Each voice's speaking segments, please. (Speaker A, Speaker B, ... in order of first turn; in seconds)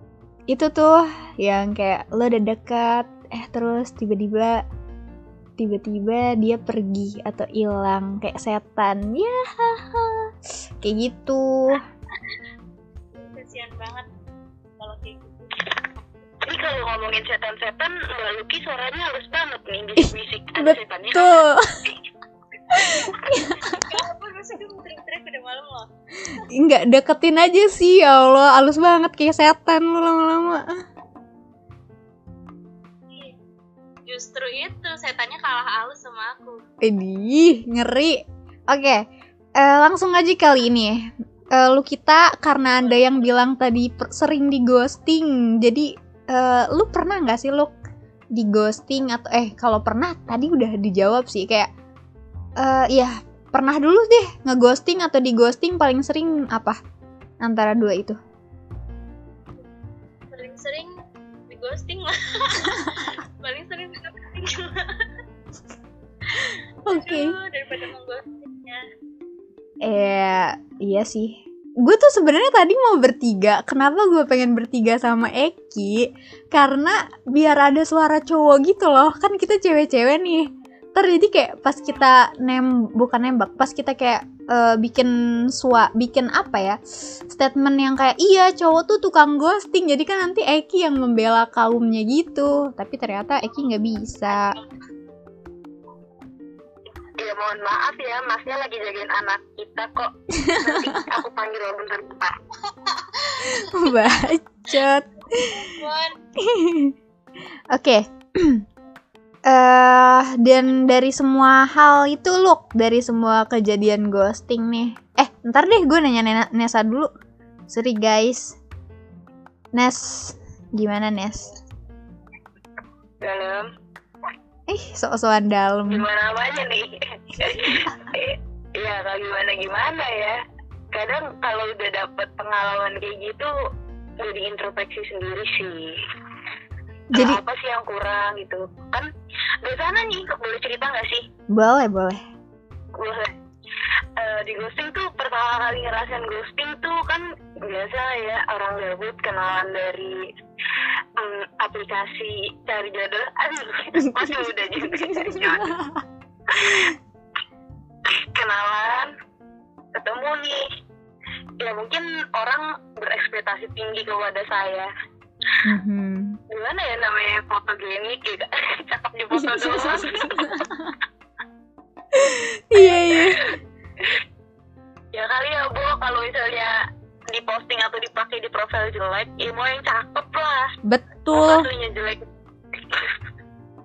Speaker A: 0.5-4.6, 5.6-11.8, 20.0-21.8, 22.7-23.8, 26.5-30.7, 36.8-39.0, 39.6-47.8, 48.3-51.7, 52.6-56.8, 57.4-58.2, 66.8-67.3, 69.8-94.6, 100.4-101.0, 103.4-105.7, 106.4-106.9, 107.7-108.6, 109.5-117.1, 117.7-118.6, 119.7-121.5, 124.7-126.1, 127.4-128.1, 137.1-137.4, 141.5-142.2, 154.0-156.0, 156.6-156.9, 165.6-166.4, 169.3-170.9, 172.1-173.5, 180.8-181.7
Speaker B: 13.3-14.1, 14.8-15.7, 23.4-25.9, 34.0-36.6, 60.3-61.0, 61.5-65.1, 66.3-68.8, 94.3-94.6, 102.8-103.9, 105.5-106.2
Speaker C: 16.4-21.9, 97.2-102.4, 123.2-123.7, 125.9-130.4, 130.9-133.5, 134.2-136.0, 137.1-139.1, 139.6-141.2, 142.9-143.3, 144.2-150.3, 151.2-155.7, 156.5-156.9, 158.1-159.1, 159.9-160.7, 161.6-164.9, 166.5-170.3, 173.3-173.5, 175.1-176.7, 177.3-180.7, 181.3-182.2, 182.8-183.1